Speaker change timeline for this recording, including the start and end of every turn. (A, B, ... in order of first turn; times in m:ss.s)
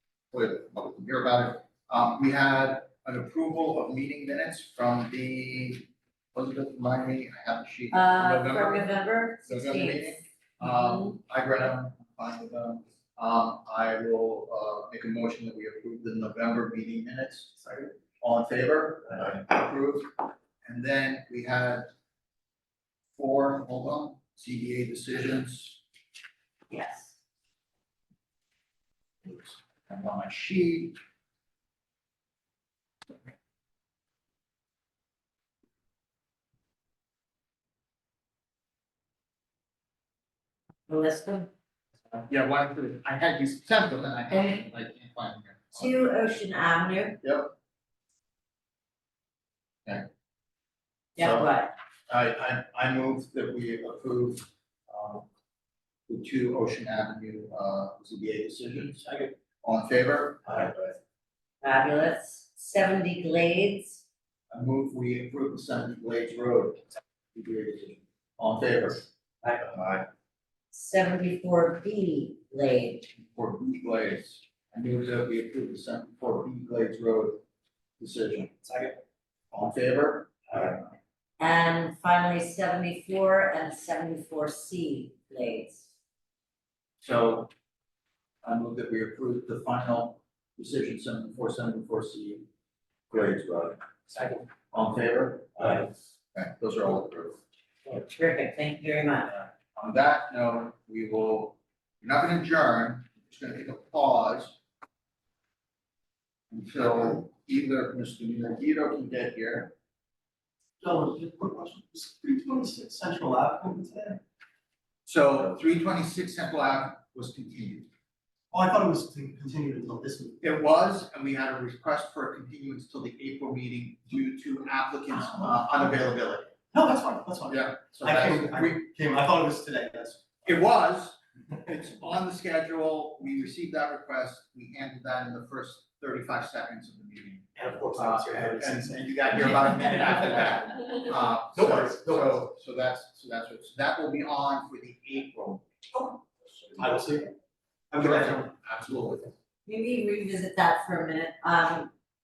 0:00.3-0:08.9 A
0:07.9-0:11.1 B
0:09.4-0:17.5 A
0:18.2-0:21.9 A
0:23.1-0:25.8 A
0:26.7-0:27.1 B
0:29.2-0:31.0 A
0:40.9-0:41.5 B
0:42.1-0:46.0 A
0:45.8-0:47.2 B
0:47.2-0:47.5 A
0:51.2-0:51.7 B
0:51.2-0:51.5 A
0:52.1-0:55.3 A
0:56.1-0:59.1 A
0:59.6-1:00.9 A
1:01.6-1:04.0 B
1:04.5-1:06.8 A
1:07.3-1:09.0 A
1:09.6-1:10.0 A
1:10.7-1:13.1 B
1:13.1-1:17.4 A
1:18.0-1:18.5 A
1:18.6-1:19.0 C
1:19.5-1:20.9 A
1:21.4-1:25.9 B
1:27.0-1:27.5 A
1:28.4-1:32.4 A
1:33.1-1:33.8 A
1:34.7-1:37.4 A
1:37.9-1:39.3 B
1:39.3-1:44.6 A
1:46.5-1:49.7 A
1:50.8-1:54.2 C
1:55.1-1:57.9 A
1:58.5-2:00.4 C
2:00.4-2:06.5 A
2:06.7-2:10.4 C
2:07.5-2:08.8 A
2:10.4-2:26.8 A
2:17.6-2:20.5 C
2:21.5-2:22.4 C
2:26.8-2:27.3 C
2:27.9-2:28.5 C
2:28.0-2:29.3 A
2:29.7-2:31.9 B